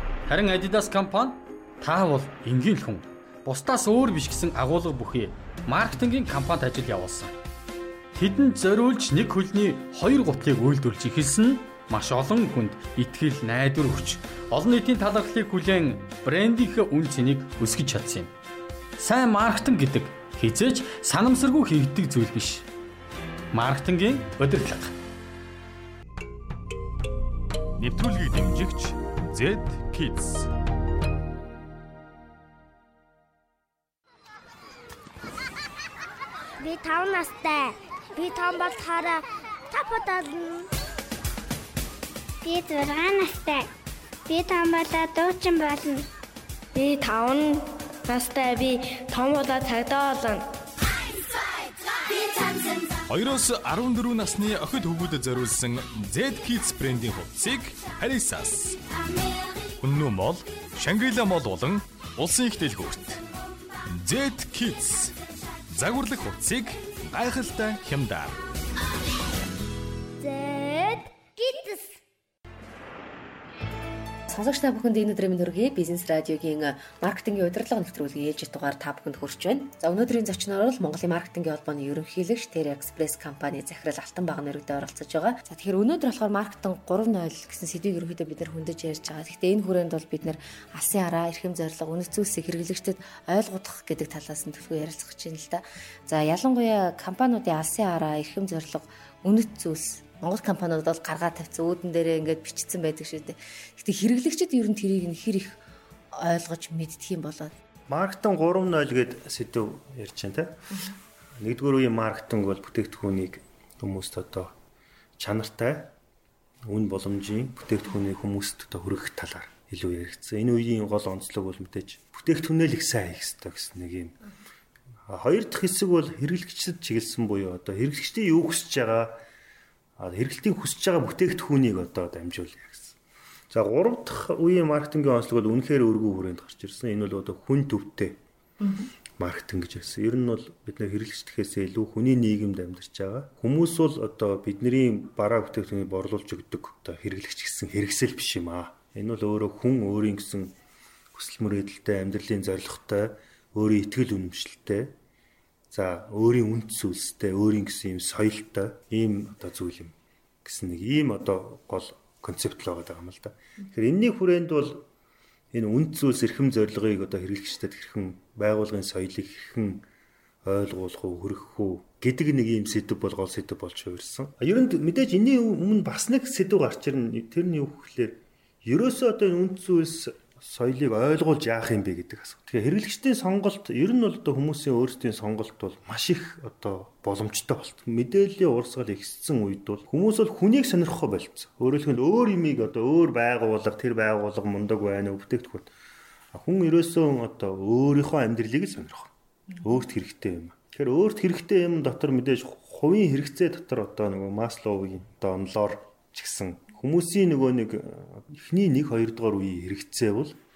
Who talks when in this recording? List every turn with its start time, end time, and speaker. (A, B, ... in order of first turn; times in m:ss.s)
0:00.2-0:07.4 A
0:08.1-0:18.3 A
0:19.0-0:22.6 A
0:23.5-0:24.9 A
0:27.8-0:30.5 B
0:36.6-0:40.5 C
0:42.4-0:43.7 D
0:44.3-0:46.0 D
0:46.8-0:50.4 E
0:53.1-0:58.8 B
0:59.8-1:03.2 B
1:04.0-1:05.2 B
1:05.7-1:08.4 B
1:10.2-1:11.9 C
1:14.3-1:45.6 F
1:46.1-1:47.5 F
1:47.9-1:50.6 G
1:51.4-1:54.5 G
1:55.2-1:55.9 G
1:56.7-2:04.2 G
2:05.1-2:09.2 G
2:10.0-2:13.0 G
2:13.5-2:18.2 G
2:19.2-2:30.5 G
2:31.1-2:34.9 G
2:35.7-2:44.8 G
2:45.5-2:49.8 G
2:50.4-3:15.7 G
3:16.3-3:30.3 G